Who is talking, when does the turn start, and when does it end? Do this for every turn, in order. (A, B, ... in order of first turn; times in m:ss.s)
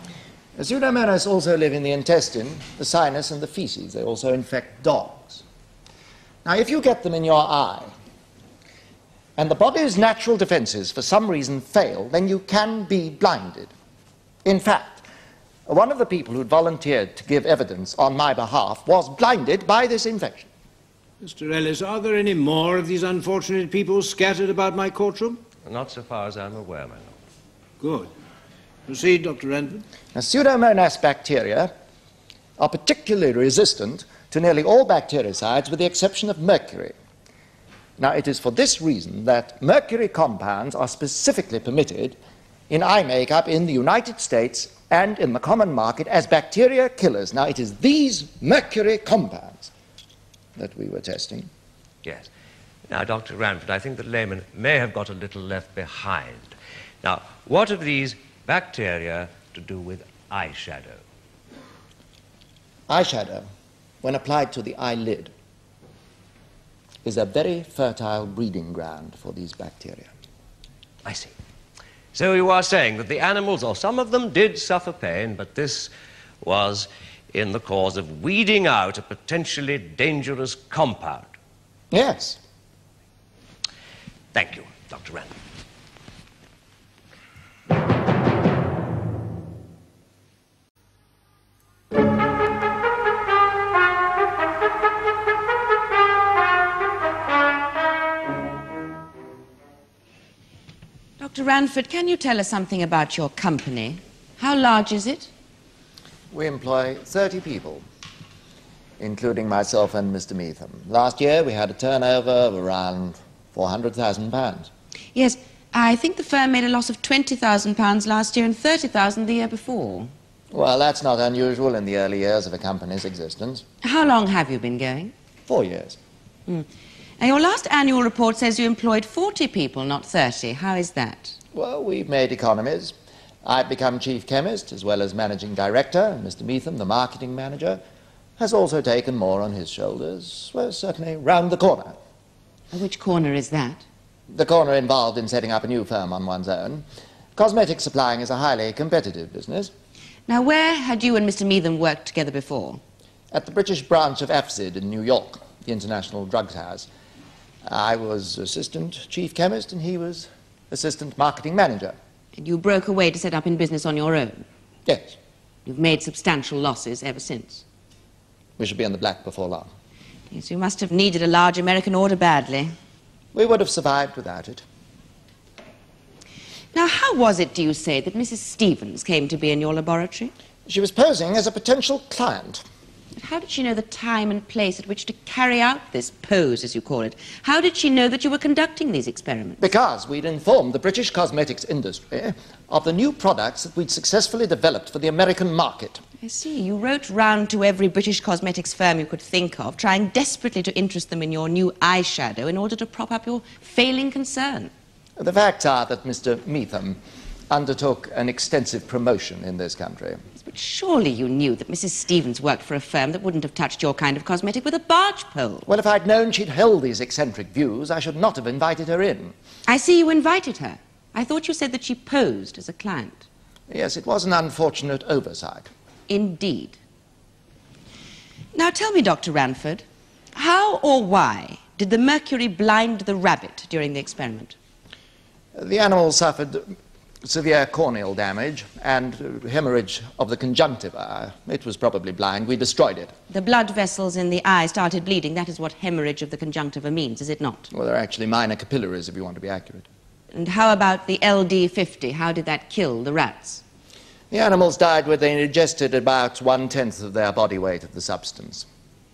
0:00.6-0:05.4 A
0:06.4-0:07.9 A
0:09.4-0:13.7 A
0:14.4-0:15.0 A
0:15.7-0:20.5 A
0:21.2-0:25.4 B
0:25.7-0:27.2 C
0:27.8-0:28.1 B
0:28.9-0:29.8 B
0:30.2-0:31.7 A
0:32.6-0:37.0 A
0:38.0-0:42.2 A
0:42.7-0:49.7 A
0:50.6-0:51.5 A
0:52.9-0:56.5 C
0:57.0-1:01.0 C
1:02.9-1:03.5 A
1:04.0-1:05.3 A
1:07.0-1:10.1 A
1:11.0-1:11.3 C
1:12.1-1:15.9 C
1:16.4-1:21.3 C
1:21.9-1:22.4 A
1:24.3-1:25.3 C
1:41.2-1:45.3 D
1:46.3-1:47.8 A
1:49.0-1:54.7 A
1:55.2-2:00.1 D
2:00.5-2:03.6 A
2:03.8-2:05.1 D
2:05.5-2:06.0 A
2:07.2-2:11.4 D
2:11.5-2:17.8 A
2:18.4-2:22.0 A
2:22.7-2:23.8 D
2:24.3-2:26.8 A
2:27.4-2:29.7 A
2:30.3-2:32.8 D
2:33.3-2:36.9 A
2:37.6-2:42.0 A
2:42.4-2:44.4 D
2:44.9-2:45.2 A
2:45.7-2:47.6 D
2:48.6-2:49.7 A
2:50.3-2:52.7 D
2:53.3-2:54.6 A
2:56.7-3:00.3 D
3:00.7-3:02.6 A
3:03.2-3:09.6 D
3:09.6-3:16.0 A
3:16.2-3:24.7 D
3:25.2-3:27.0 A
3:27.5-3:30.2 A
3:30.4-3:35.7 D
3:35.7-3:39.3 A
3:39.7-3:43.2 D
3:43.7-3:45.7 A
3:46.1-3:46.8 D
3:48.5-3:54.6 D
3:55.6-4:03.1 A
4:03.3-4:07.7 D
4:07.7-4:09.9 A
4:10.3-4:13.6 D
4:14.3-4:18.7 A